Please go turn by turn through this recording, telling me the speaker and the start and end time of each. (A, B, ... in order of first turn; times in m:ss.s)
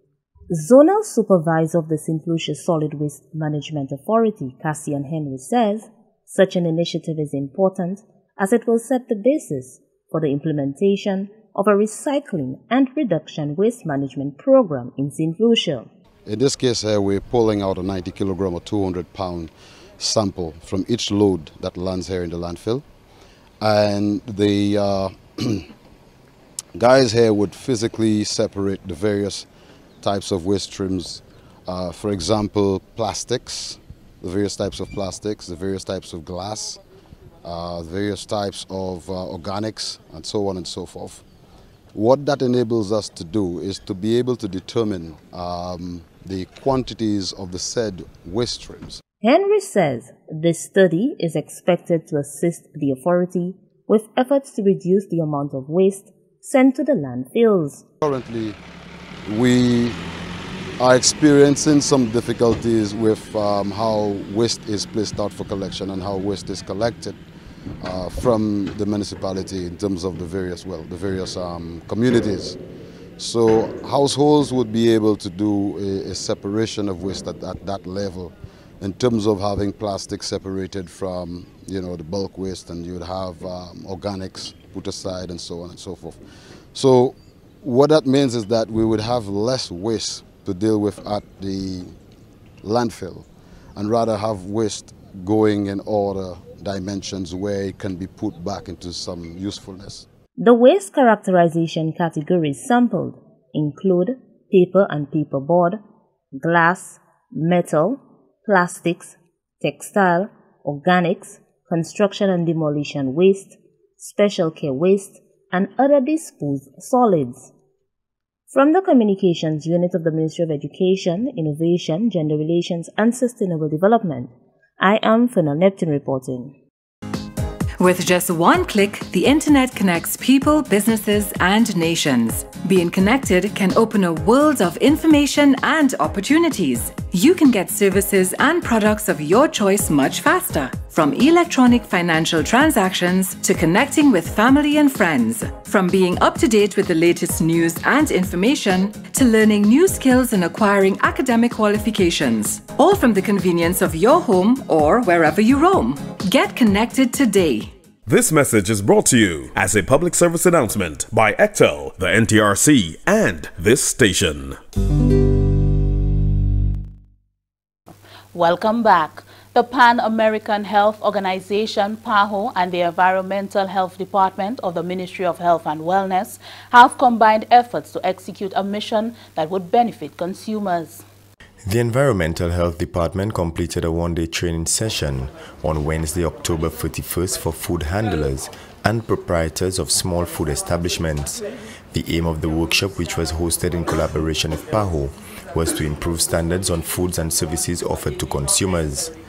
0:00.5-0:15.9 A
0:16.3-0:22.8 B
0:23.6-0:25.7 B
0:26.8-0:29.5 B
0:30.0-0:36.8 B
0:37.4-0:41.2 B
0:41.9-0:49.0 B
0:49.2-0:57.9 A
0:58.0-0:58.6 B
0:59.2-1:00.0 B
1:00.8-1:07.2 B
1:07.8-1:12.6 B
1:13.2-1:26.2 B
1:26.7-1:32.0 B
1:32.6-1:40.0 B
1:40.4-1:45.8 A
1:46.4-1:57.5 A
1:58.5-2:06.5 A
2:07.8-2:37.7 C
2:38.1-2:44.6 D
2:48.3-3:01.0 E
3:01.6-3:19.2 F